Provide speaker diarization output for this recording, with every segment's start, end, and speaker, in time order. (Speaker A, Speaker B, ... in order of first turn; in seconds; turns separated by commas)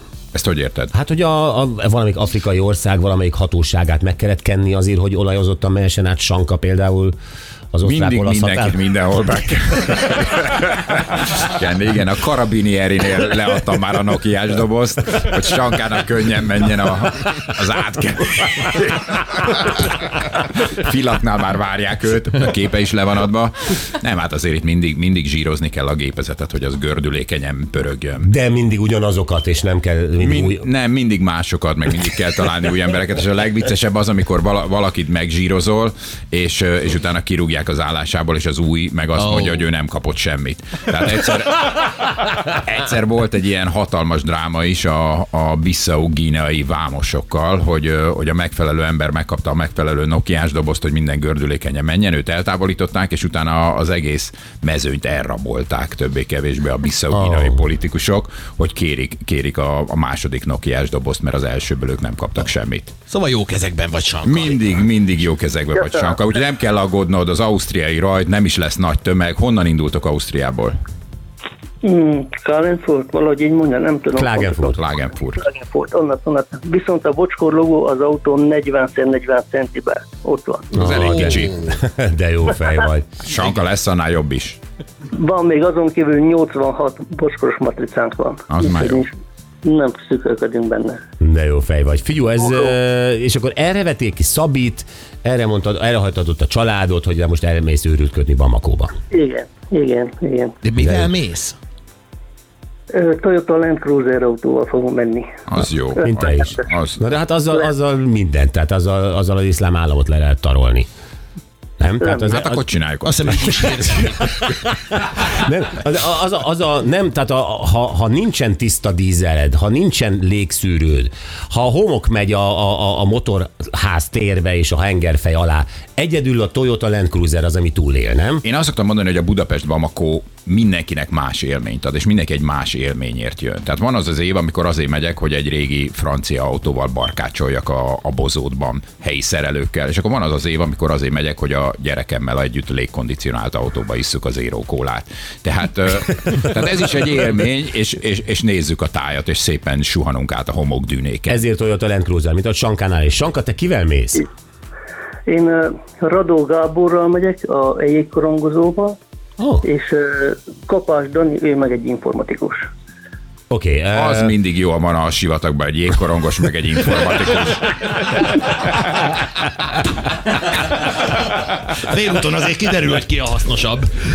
Speaker A: 0.3-0.9, Speaker B: 0.9-7.2, Speaker B: 7.7-8.8, Speaker A: 7.8-28.3, Speaker B: 28.2-30.7, Speaker A: 30.2-62.9, Speaker C: 39.2-39.6, Speaker B: 57.1-57.6, Speaker C: 63.1-64.7, Speaker A: 64.2-70.8, Speaker D: 65.8-66.2, Speaker D: 71.8-74.8, Speaker B: 74.2-74.8, Speaker A: 74.8-75.4, Speaker D: 75.3-80.9, Speaker A: 80.8-81.7, Speaker B: 80.8-83.2, Speaker A: 83.2-84.6, Speaker D: 85.1-91.0, Speaker A: 88.5-89.1, Speaker B: 91.2-98.9, Speaker D: 92.4-92.7, Speaker D: 99.1-100.6, Speaker C: 100.6-101.5, Speaker B: 100.8-101.1, Speaker D: 102.9-105.4, Speaker A: 105.5-107.0, Speaker D: 106.0-106.6, Speaker B: 106.0-110.9, Speaker B: 111.8-112.7, Speaker D: 112.0-112.4, Speaker A: 112.3-113.4, Speaker C: 113.0-114.5, Speaker B: 114.7-128.4, Speaker A: 128.4-151.4, Speaker B: 151.3-154.2, Speaker D: 155.3-159.0, Speaker B: 159.4-159.6, Speaker D: 159.6-162.7, Speaker B: 163.5-164.3, Speaker A: 163.9-168.2, Speaker C: 171.8-173.9